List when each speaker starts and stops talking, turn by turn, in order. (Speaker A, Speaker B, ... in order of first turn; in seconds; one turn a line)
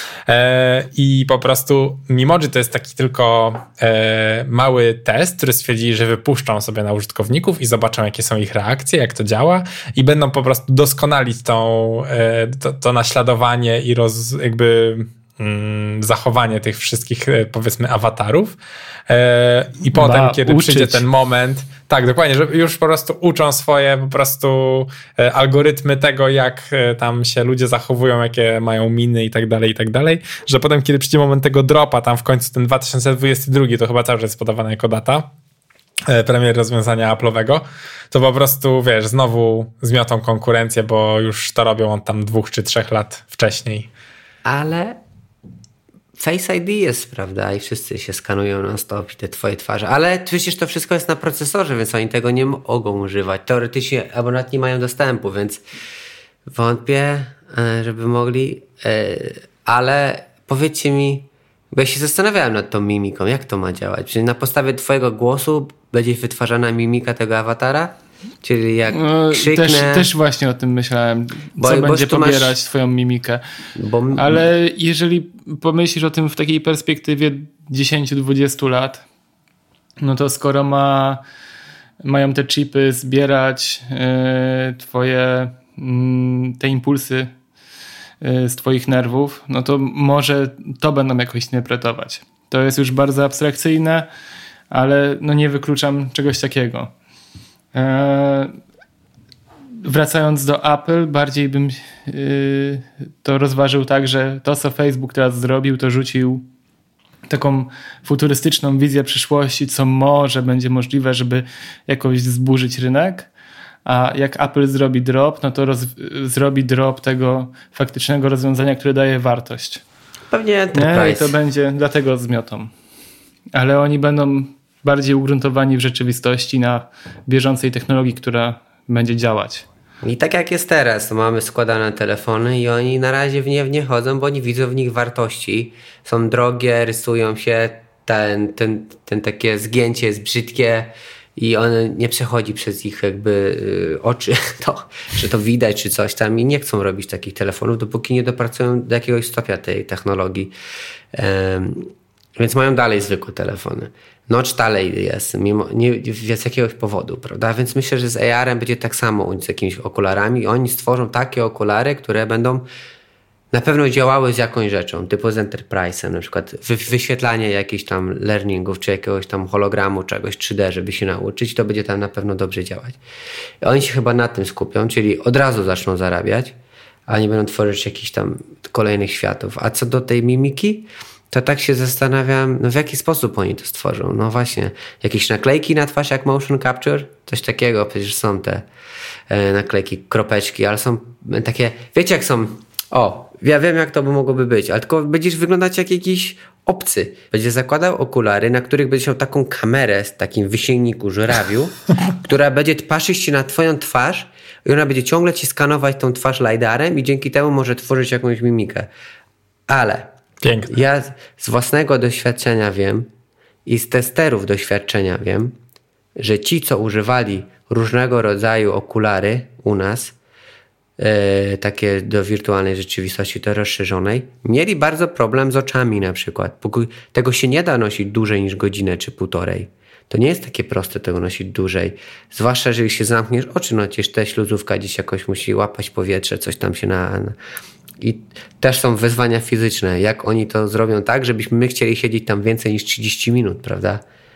Speaker A: 0.3-18.6
Speaker A: 19.1-35.3
Speaker B: 19.9-21.0
Speaker A: 36.1-43.9
Speaker C: 44.4-45.0
Speaker C: 46.2-55.6
Speaker C: 56.5-70.1
Speaker B: 68.9-73.4
Speaker C: 71.6-72.5
Speaker C: 73.8-74.5
Speaker B: 74.2-79.0
Speaker B: 80.0-81.2
Speaker B: 82.0-87.3
Speaker B: 88.2-94.1
Speaker B: 94.7-96.9
Speaker B: 97.7-98.6
Speaker B: 99.8-106.5
Speaker B: 107.3-113.3
Speaker B: 113.8-119.8
Speaker C: 120.3-121.3
Speaker B: 120.7-122.7
Speaker B: 123.5-129.6
Speaker C: 130.0-150.5
Speaker C: 151.1-162.7
Speaker C: 163.5-173.0
Speaker C: 173.6-176.5
Speaker C: 177.1-188.7
Speaker C: 189.3-208.9
Speaker C: 209.7-210.1
Speaker A: 210.4-210.7
Speaker C: 210.7-213.1
Speaker C: 213.7-215.5
Speaker C: 216.2-220.1
Speaker C: 221.0-237.3
Speaker C: 238.0-244.0